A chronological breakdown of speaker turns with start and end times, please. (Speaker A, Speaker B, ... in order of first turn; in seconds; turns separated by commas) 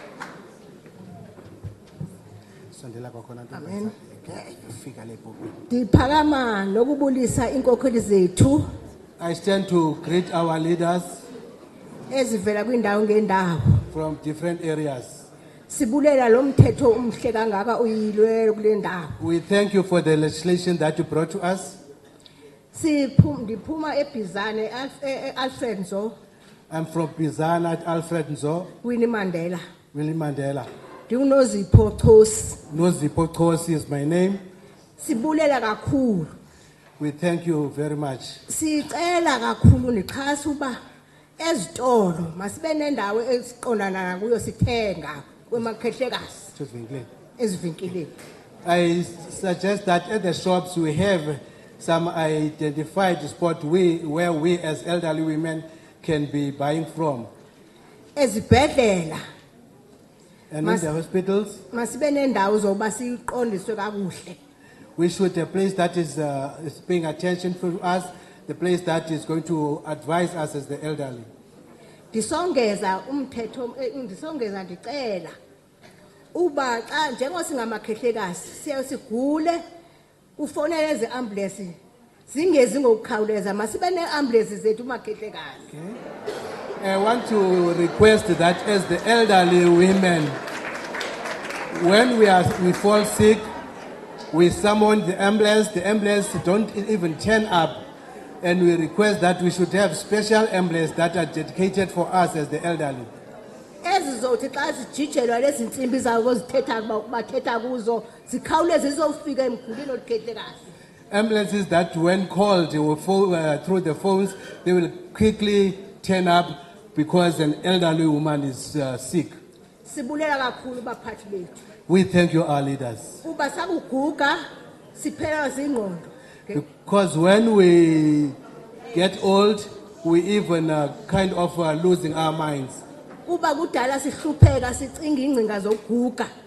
Speaker A: 2.7-5.5, Speaker B: 3.5-3.9, Speaker B: 5.7-8.6, Speaker A: 9.2-11.2, Speaker B: 12.1-13.8, Speaker A: 13.9-15.3, Speaker B: 15.7-19.1, Speaker A: 19.2-21.8, Speaker B: 22.7-26.1, Speaker A: 26.7-28.7, Speaker B: 28.8-29.6, Speaker A: 29.9-30.7, Speaker B: 31.1-32.6, Speaker A: 32.7-34.4, Speaker B: 35.0-36.3, Speaker A: 37.0-38.4, Speaker B: 38.5-40.8, Speaker B: 41.4-46.5, Speaker A: 46.5-47.1, Speaker B: 47.4-48.1, Speaker A: 48.6-57.3, Speaker B: 58.1-59.2, Speaker A: 60.5-61.6, Speaker B: 61.7-64.4, Speaker A: 65.0-71.3, Speaker B: 72.1-75.3, Speaker B: 76.3-79.6, Speaker B: 80.4-81.8, Speaker B: 82.3-85.6, Speaker A: 85.7-86.0, Speaker A: 86.8-90.3, Speaker A: 91.7-93.5, Speaker A: 94.3-97.8, Speaker A: 98.4-103.1, Speaker B: 103.8-110.6, Speaker A: 111.1-119.3, Speaker B: 119.8-121.6, Speaker A: 121.9-123.2, Speaker B: 123.2-124.4, Speaker B: 124.9-126.6, Speaker A: 126.5-128.3, Speaker A: 128.9-132.8, Speaker B: 133.2-136.3